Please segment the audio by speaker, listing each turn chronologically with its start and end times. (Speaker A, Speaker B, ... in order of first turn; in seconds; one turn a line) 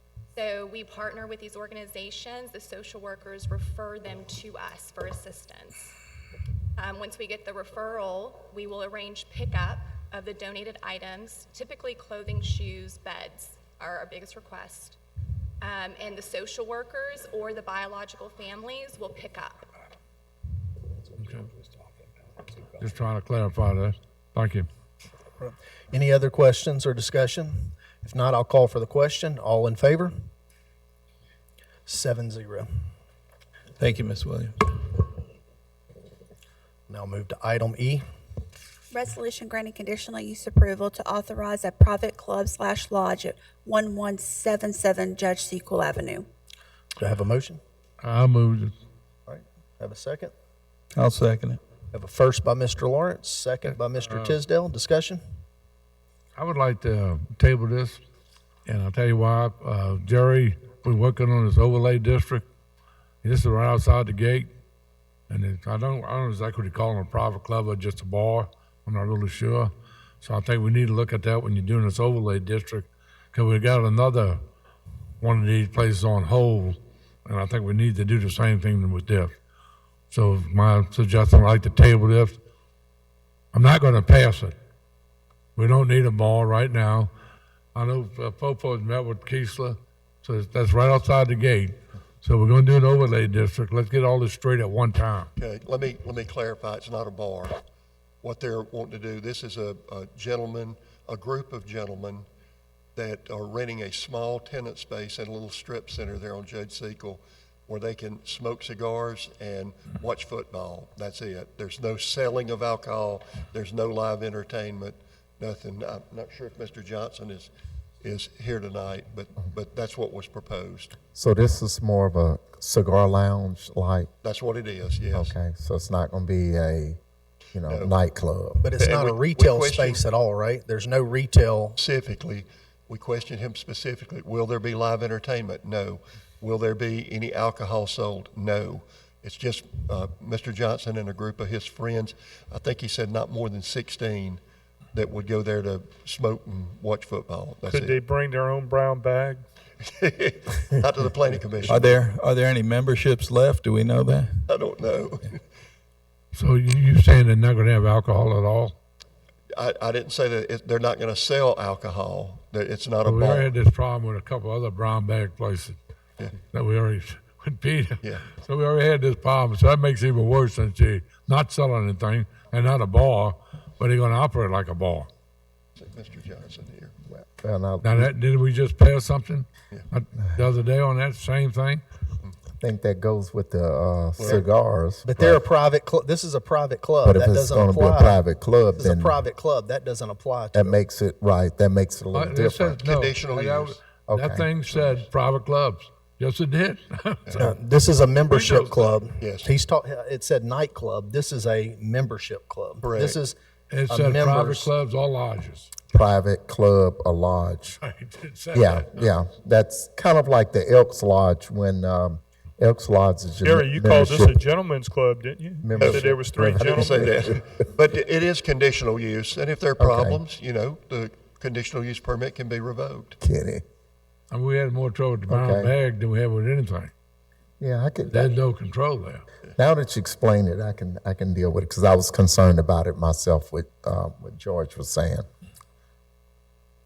Speaker A: 0.3-6.0
Speaker A: 6.8-15.0
Speaker A: 15.6-19.7
Speaker B: 21.2-21.5
Speaker B: 22.8-24.7
Speaker C: 25.4-30.3
Speaker C: 31.9-32.7
Speaker D: 33.8-34.7
Speaker C: 36.9-38.0
Speaker E: 38.9-46.3
Speaker C: 47.0-47.6
Speaker B: 48.0-48.7
Speaker C: 49.3-50.3
Speaker D: 50.9-51.6
Speaker C: 51.9-55.2
Speaker B: 53.7-54.4
Speaker B: 56.4-58.0
Speaker B: 58.6-62.5
Speaker B: 63.2-64.5
Speaker B: 65.3-74.4
Speaker B: 75.2-79.3
Speaker B: 80.1-82.4
Speaker B: 83.5-84.5
Speaker B: 85.5-87.1
Speaker B: 87.7-95.3
Speaker F: 95.3-97.6
Speaker F: 98.2-102.3
Speaker F: 102.9-121.0
Speaker G: 121.1-124.1
Speaker F: 124.2-125.3
Speaker G: 125.1-127.0
Speaker G: 127.5-128.7
Speaker F: 127.7-128.0
Speaker C: 128.6-131.8
Speaker F: 128.8-130.0
Speaker F: 131.8-144.4
Speaker F: 144.9-148.0
Speaker H: 147.6-149.4
Speaker F: 149.8-152.0
Speaker D: 151.7-154.3
Speaker F: 154.5-155.4
Speaker B: 156.3-158.8
Speaker F: 159.5-163.5
Speaker B: 163.0-165.8
Speaker B: 166.4-175.1
Speaker F: 168.0-168.3
Speaker F: 175.8-176.9
Speaker G: 177.1-178.1
Speaker B: 177.8-181.8
Speaker G: 182.6-185.4
Speaker F: 184.2-184.4
Speaker C: 185.0-188.2
Speaker G: 187.0-189.2
Speaker C: 188.8-190.8
Speaker G: 190.5-192.8
Speaker B: 192.1-197.5
Speaker F: 192.7-193.8
Speaker G: 194.1-195.0
Speaker F: 197.3-197.5
Speaker C: 197.4-203.3
Speaker B: 198.3-198.9
Speaker F: 199.2-199.5
Speaker F: 202.8-203.2
Speaker B: 203.7-205.7
Speaker C: 203.9-204.7
Speaker G: 205.9-207.8
Speaker B: 207.7-209.1
Speaker G: 208.5-214.4
Speaker H: 213.4-217.3
Speaker G: 215.6-217.2
Speaker F: 215.8-216.1
Speaker F: 216.8-223.2
Speaker G: 219.8-220.2
Speaker G: 223.2-223.6
Speaker B: 224.3-226.9
Speaker G: 225.3-225.7
Speaker G: 227.6-228.3
Speaker B: 228.1-229.2
Speaker G: 229.6-235.2